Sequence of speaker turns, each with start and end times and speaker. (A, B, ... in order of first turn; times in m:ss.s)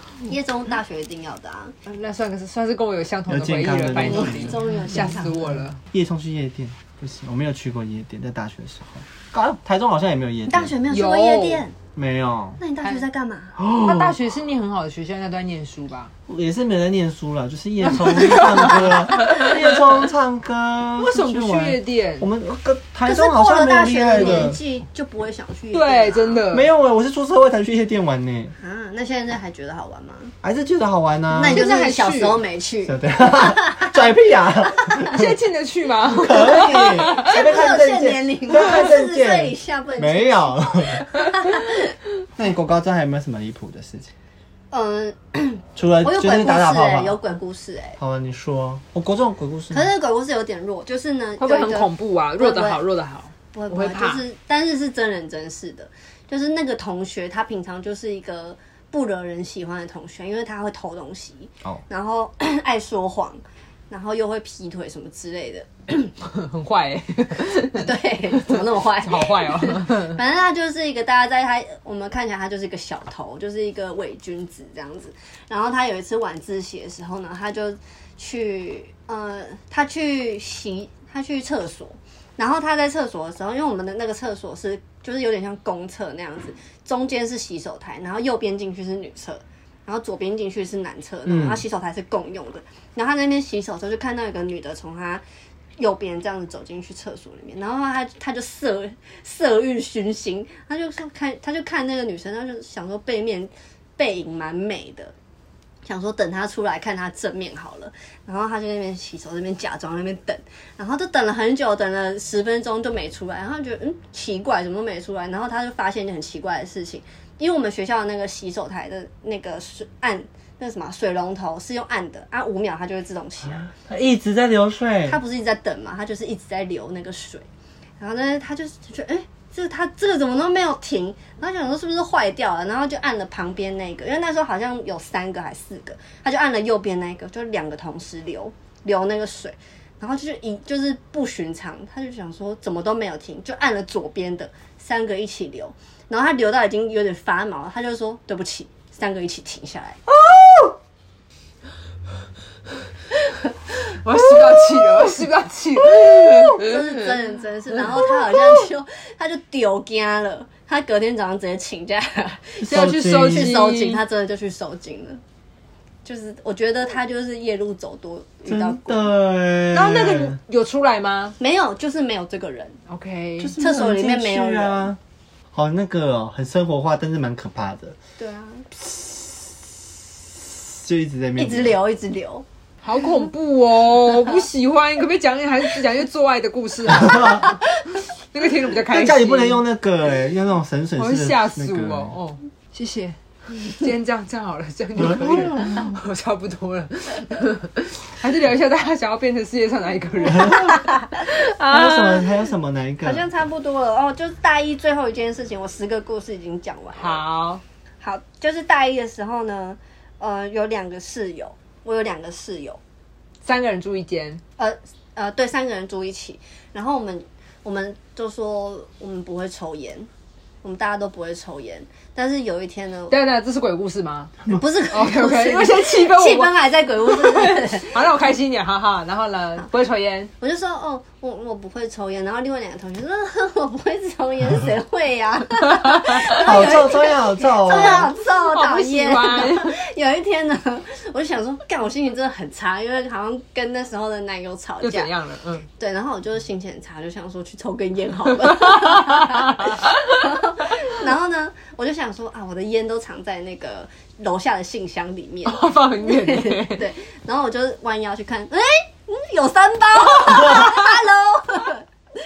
0:00.2-0:01.7 A
0:01.9-0:05.8 B
0:03.3-0:10.7 C
0:04.0-0:05.5 A
0:10.5-0:11.8 A
0:10.9-0:11.6 B
0:12.0-0:12.6 C
0:12.6-0:13.6 A
0:13.6-0:14.2 C
0:13.6-0:16.1 B
0:16.3-0:24.6 C
0:17.9-0:19.6 B
0:21.0-0:22.3 B
0:23.0-0:26.4 A
0:24.2-0:24.5 B
0:25.7-0:26.7 B
0:26.5-0:28.5 C
0:28.6-0:30.3 A
0:30.4-0:31.6 C
0:31.3-0:34.0 A
0:31.4-0:32.4 B
0:32.8-0:35.3 C
0:35.0-0:37.3 B
0:36.1-0:41.1 C
0:36.4-0:41.9 A
0:42.4-0:44.1 C
0:44.7-0:48.0 A
0:45.8-0:47.2 C
0:48.0-0:49.9 C
0:49.7-0:52.8 A
0:51.4-0:54.2 B
0:53.5-1:06.1 A
1:06.2-1:10.2 B
1:07.7-1:35.2 A
1:31.3-1:31.6 C
1:35.8-1:45.1 A
1:45.8-2:03.7 A
2:03.6-2:05.2 C
2:05.0-2:07.4 A
2:08.0-2:30.0 A
2:30.3-2:30.7 C
2:33.8-2:37.1 B
2:35.9-2:36.6 C
2:36.6-2:45.2 A
2:37.9-2:38.4 B
2:42.6-2:43.7 C
2:42.7-2:44.0 B
2:46.0-2:49.1 A
2:48.5-2:50.4 C
2:49.7-2:51.4 B
2:51.4-2:52.8 A
2:52.9-2:53.5 B
2:53.4-2:55.0 C
2:53.6-2:54.9 A
2:55.5-2:58.0 C
2:58.2-2:58.7 A
2:58.9-2:59.4 C
3:00.4-3:01.8 C
3:01.4-3:02.4 A
3:02.8-3:09.6 B
3:06.9-3:07.5 C
3:08.8-3:12.2 C
3:11.0-3:22.4 B
3:15.0-3:15.8 C
3:20.2-3:20.8 C
3:20.7-3:21.0 A
3:21.6-3:23.2 C
3:23.0-3:27.2 A
3:27.0-3:27.6 B
3:28.0-3:32.8 A
3:33.4-3:34.4 B
3:34.6-3:40.1 A
3:40.6-3:43.2 A
3:43.1-3:44.3 B
3:44.5-3:48.0 A
3:44.9-3:50.3 B
3:50.4-4:05.1 A
3:56.3-3:58.1 C
3:57.9-3:59.8 B
4:04.8-4:05.6 B
4:05.8-4:21.8 A
4:08.7-4:10.3 B
4:15.4-4:16.9 B
4:20.4-4:20.6 B